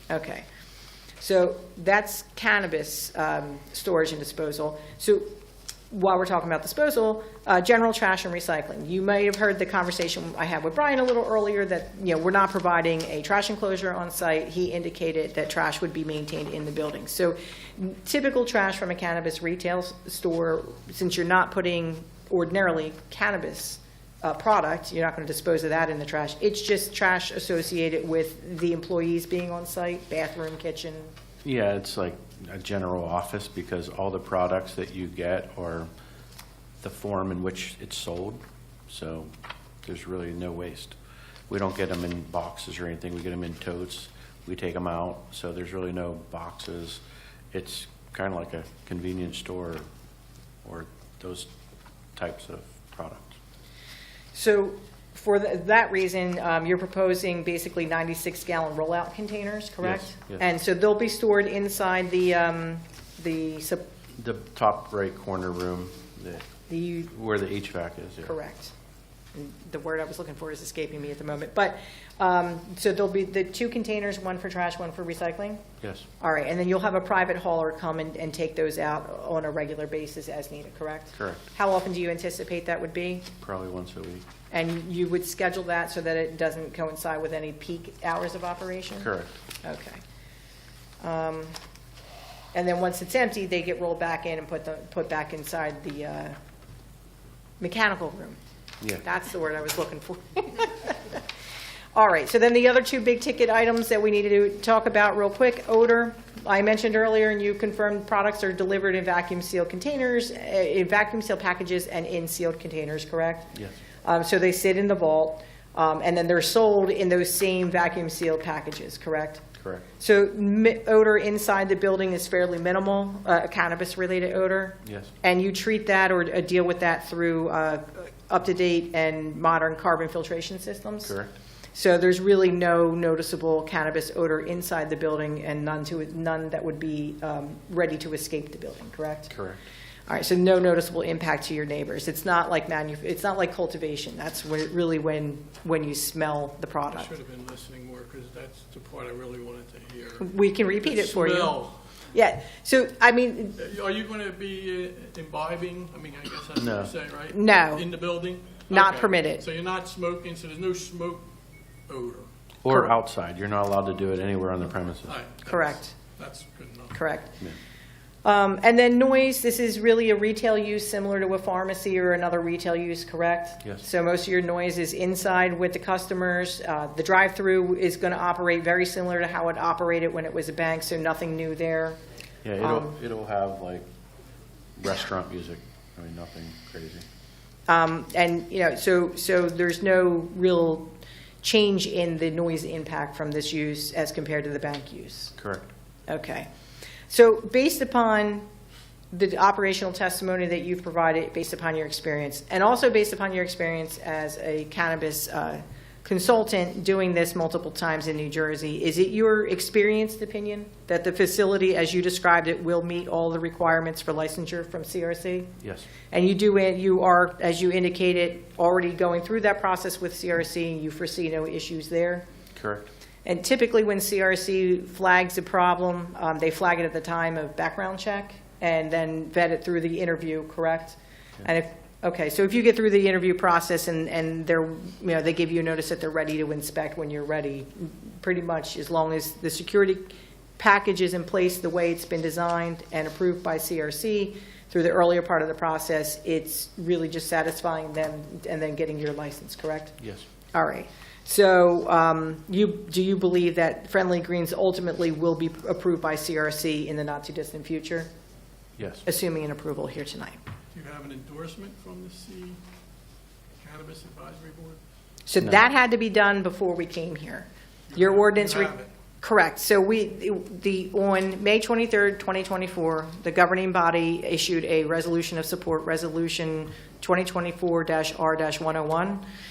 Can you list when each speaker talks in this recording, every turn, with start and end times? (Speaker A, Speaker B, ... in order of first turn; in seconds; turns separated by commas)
Speaker A: 0.1-0.5, Speaker A: 1.2-5.3, Speaker A: 5.9-31.1, Speaker B: 31.4-35.9, Speaker B: 36.8-39.3, Speaker B: 39.8-41.0, Speaker B: 41.5-47.0, Speaker B: 47.5-49.8, Speaker B: 50.6-51.5, Speaker B: 52.2-53.4, Speaker A: 54.3-63.9, Speaker B: 59.8-60.4, Speaker B: 64.2-66.5, Speaker A: 66.7-67.1, Speaker B: 67.1-68.3, Speaker A: 68.3-68.7, Speaker A: 69.3-75.7, Speaker B: 75.8-76.1, Speaker A: 76.2-83.3, Speaker B: 81.2-81.4, Speaker B: 83.4-84.3, Speaker A: 84.5-89.1, Speaker B: 89.0-89.4, Speaker A: 89.6-90.0, Speaker A: 91.0-91.5, Speaker A: 92.5-96.4, Speaker A: 97.6-98.4, Speaker A: 99.0-101.2, Speaker A: 102.0-119.4, Speaker B: 119.6-119.8, Speaker A: 120.0-131.1, Speaker B: 124.8-125.1, Speaker B: 131.1-131.3, Speaker A: 131.8-139.3, Speaker B: 139.3-139.6, Speaker A: 140.1-147.1, Speaker C: 146.9-151.8, Speaker A: 150.2-151.6, Speaker A: 152.1-153.6, Speaker C: 153.6-161.3, Speaker B: 156.6-156.9, Speaker A: 157.3-157.9, Speaker A: 158.7-159.4, Speaker C: 161.9-162.3, Speaker B: 162.6-165.1, Speaker C: 165.1-167.0, Speaker A: 165.4-165.9, Speaker A: 166.9-167.3, Speaker A: 168.2-182.0, Speaker B: 182.4-183.8, Speaker A: 182.6-182.9, Speaker B: 184.8-187.0, Speaker A: 187.7-195.4, Speaker B: 195.4-195.7, Speaker A: 196.1-196.5, Speaker A: 197.1-198.5, Speaker A: 199.1-215.5, Speaker B: 215.6-215.9, Speaker A: 216.1-222.2, Speaker B: 222.6-222.9, Speaker A: 223.2-250.0, Speaker A: 250.5-258.1, Speaker B: 258.8-259.1, Speaker A: 259.1-260.4, Speaker C: 260.7-262.6, Speaker C: 263.6-264.8, Speaker A: 265.3-279.2, Speaker C: 267.9-268.9